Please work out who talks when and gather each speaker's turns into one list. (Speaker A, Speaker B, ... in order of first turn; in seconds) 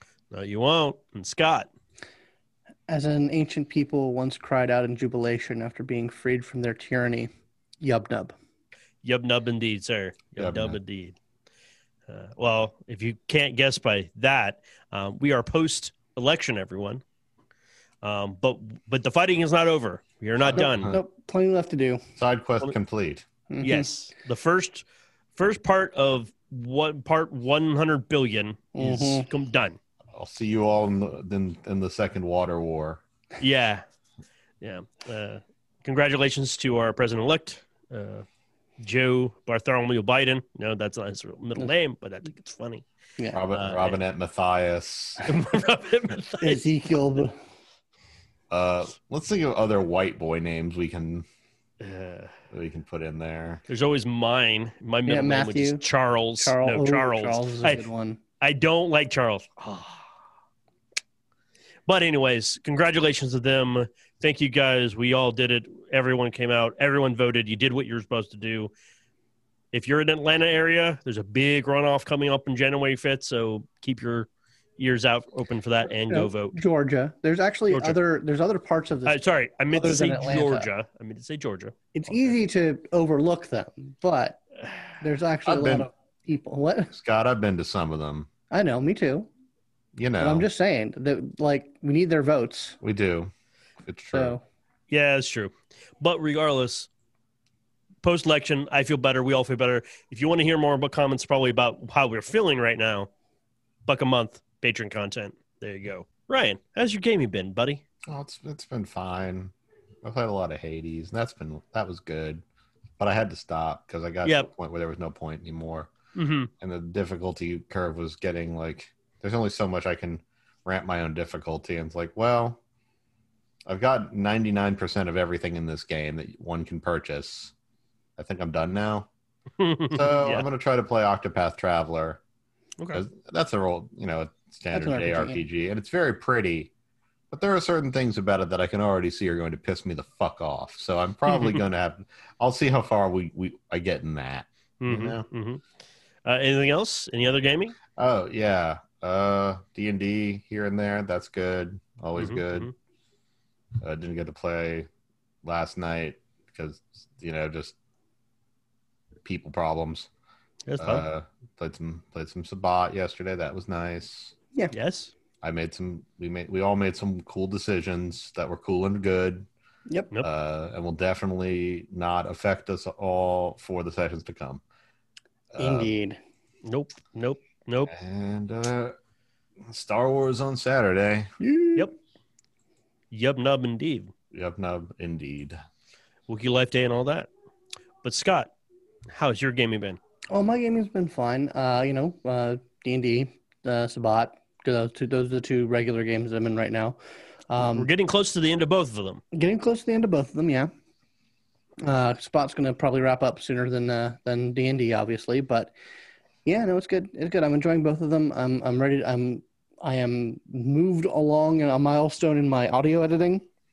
Speaker A: 0.3-1.7, 9.0-11.2, 12.1-17.0, 18.0-20.9, 23.6-29.8, 33.4-33.8, 34.6-38.2, 38.8-42.9, 43.5-44.0, 45.2-46.6, 51.8-52.3, 53.7-57.9, 58.4-60.1, 61.9-68.7, 69.7-76.6, 77.7-78.0, 79.0-82.3, 84.7-85.0, 94.9-96.9, 98.0-103.1, 103.8-107.8, 116.1-116.5, 129.6-130.5, 141.3-141.6, 144.8-145.6, 146.2-147.8, 152.2-152.7, 160.7-161.0, 164.7-165.1, 176.6-177.9, 183.1-184.1, 186.3-187.3, 188.0-188.5, 189.1-190.0, 197.6-199.2
Speaker B: 2.9-8.3, 20.6-22.0, 23.5-23.9, 28.7-29.2, 46.4-47.4, 55.0-55.8, 56.4-58.2, 76.1-80.7, 81.9-84.4, 85.0-87.0, 88.5-89.3, 90.2-92.8, 94.1-94.4, 134.7-135.4, 175.6-176.2, 181.4-181.9, 190.3-197.0, 197.5-197.9, 199.3-200.7, 201.8-205.7, 206.4-213.4
Speaker C: 10.4-10.8, 20.4-21.0, 22.2-23.2, 30.1-33.0, 43.3-45.2, 48.5-51.2, 52.5-53.6, 85.5-85.9, 86.9-88.3, 89.9-90.5, 92.8-93.3, 93.8-94.4, 108.1-112.4, 113.0-115.9, 116.6-122.6, 123.7-127.5, 128.2-129.1, 129.9-132.2, 132.9-136.7, 137.3-145.2, 147.9-152.7, 153.8-154.9, 155.4-157.8, 159.2-160.1, 160.8-164.3, 165.4-169.5, 170.2-174.6, 175.5-175.9, 177.9-178.9, 179.6-181.3, 184.3-185.6